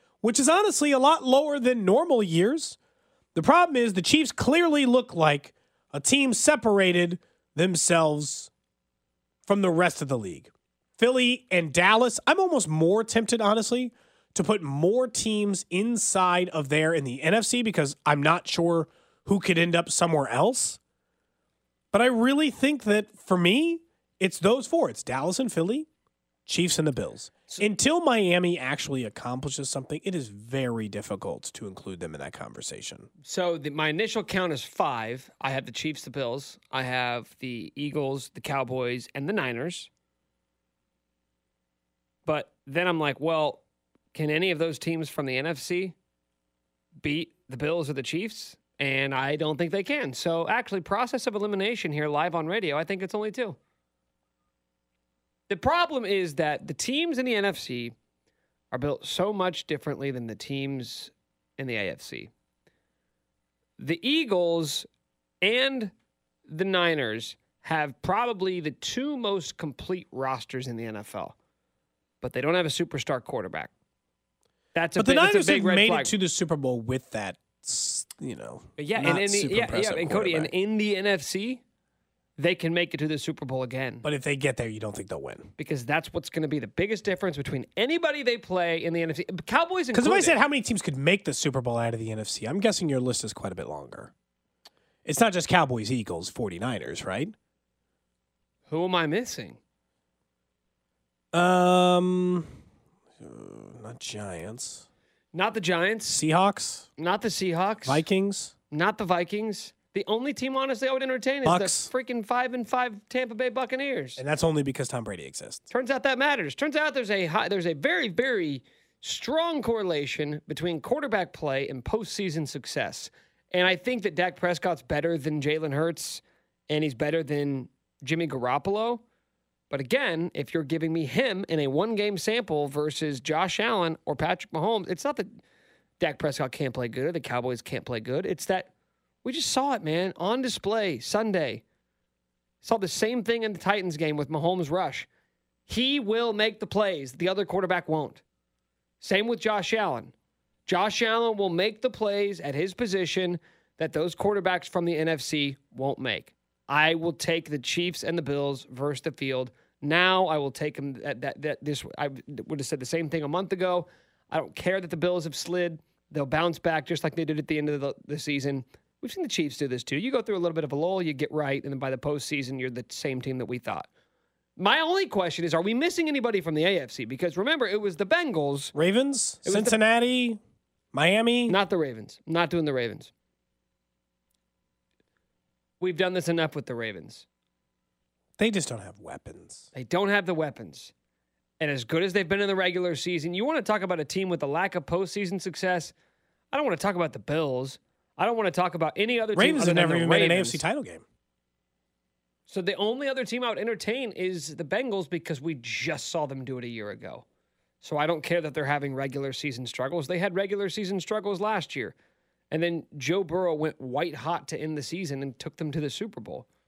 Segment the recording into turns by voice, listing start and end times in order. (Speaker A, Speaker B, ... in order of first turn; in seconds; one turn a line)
Speaker A: 0.2-2.8
Speaker A: 3.3-8.5
Speaker A: 9.4-20.8
Speaker A: 21.9-25.9
Speaker A: 26.4-33.1
Speaker B: 33.2-39.9
Speaker B: 42.2-43.6
Speaker B: 44.1-46.0
Speaker B: 47.0-53.6
Speaker B: 55.5-57.9
Speaker B: 58.7-62.3
Speaker B: 63.8-64.9
Speaker B: 65.4-65.9
Speaker B: 66.5-71.3
Speaker B: 72.2-73.7
Speaker B: 74.7-76.1
Speaker A: 75.0-80.5
Speaker B: 78.8-81.6
Speaker B: 82.4-84.1
Speaker A: 84.0-85.5
Speaker B: 85.6-90.4
Speaker A: 89.9-94.1
Speaker A: 95.0-97.3
Speaker B: 98.7-99.6
Speaker A: 101.3-102.5
Speaker A: 103.2-104.8
Speaker B: 105.3-106.2
Speaker A: 106.0-106.9
Speaker B: 107.0-108.0
Speaker A: 107.8-108.5
Speaker B: 108.7-114.2
Speaker A: 111.4-111.9
Speaker A: 114.2-115.7
Speaker B: 115.7-129.0
Speaker B: 129.7-135.3
Speaker B: 136.0-138.7
Speaker B: 139.2-141.6
Speaker B: 142.6-145.1
Speaker B: 145.7-148.2
Speaker B: 149.0-150.1
Speaker B: 150.7-173.9
Speaker B: 174.6-178.7
Speaker A: 178.7-180.4
Speaker B: 179.4-179.8
Speaker A: 180.9-181.6
Speaker B: 181.5-183.1
Speaker B: 185.8-187.2
Speaker A: 188.4-189.7
Speaker B: 189.7-190.9
Speaker B: 191.6-195.9
Speaker B: 196.5-200.6
Speaker A: 199.3-201.0
Speaker B: 202.5-207.2
Speaker B: 207.8-211.9
Speaker B: 212.5-216.4